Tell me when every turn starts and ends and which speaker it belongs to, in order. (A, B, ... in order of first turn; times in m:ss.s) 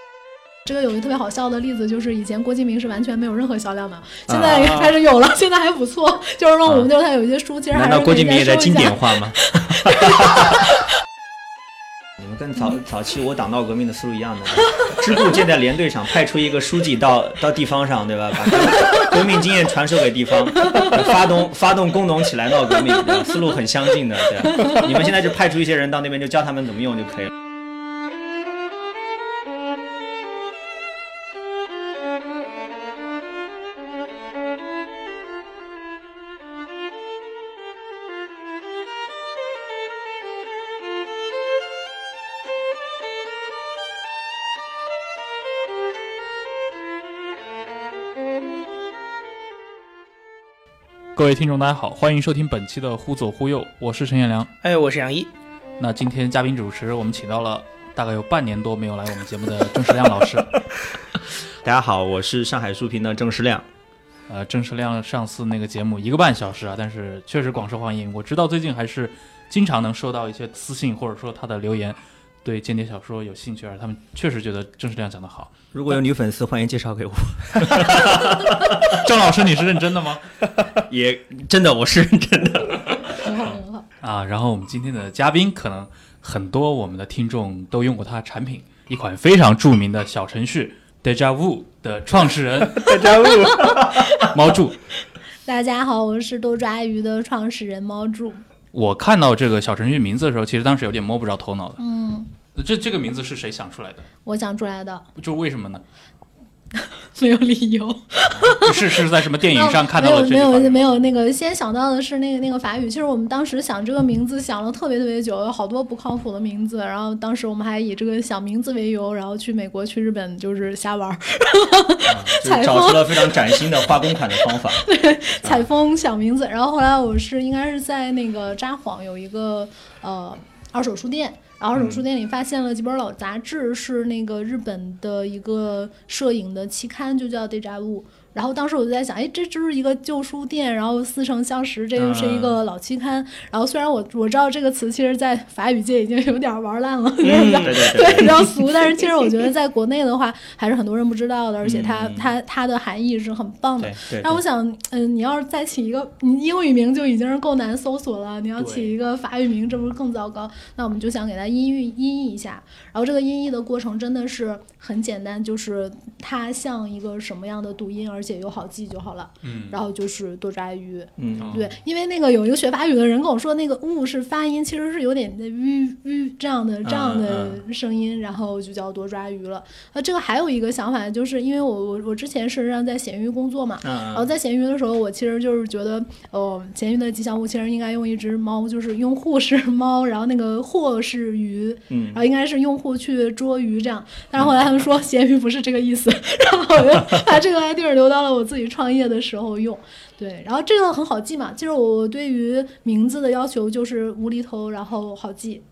0:00.6-0:10.6 A
0:04.3-0:04.8 B
0:07.7-0:10.6 B
0:12.2-0:27.3 B
0:20.7-0:21.0 A
0:24.5-0:24.8 A
0:51.2-0:54.5 C
0:54.6-0:55.3 D
0:55.8-1:00.6 C
1:01.6-1:03.6 B
1:04.3-1:15.5 C
1:15.7-1:19.1 B
1:18.8-1:20.2 C
1:20.7-1:23.2 B
1:23.2-1:23.8 A
1:24.0-1:33.2 C
1:32.8-1:33.7 D
1:33.4-1:33.9 A
1:33.7-1:34.8 C
1:35.5-1:38.4 A
1:38.7-1:41.8 C
1:41.8-1:42.3 A
1:42.5-1:44.1 C
1:44.3-1:45.0 A
1:45.2-1:45.8 C
1:46.8-2:03.7 A
1:48.5-1:50.9 C
2:02.1-2:04.9 B
2:04.8-3:25.6 A
2:11.7-2:12.0 B
2:22.0-2:22.6 B
2:27.2-2:27.9 D
2:27.6-2:28.5 B
2:31.6-2:32.3 B
2:33.8-2:34.4 B
2:38.6-2:38.9 C
2:49.4-2:49.8 C
2:51.2-2:51.7 B
2:51.4-2:51.7 C
2:56.8-2:57.6 B
3:03.8-3:04.3 B
3:11.9-3:12.2 B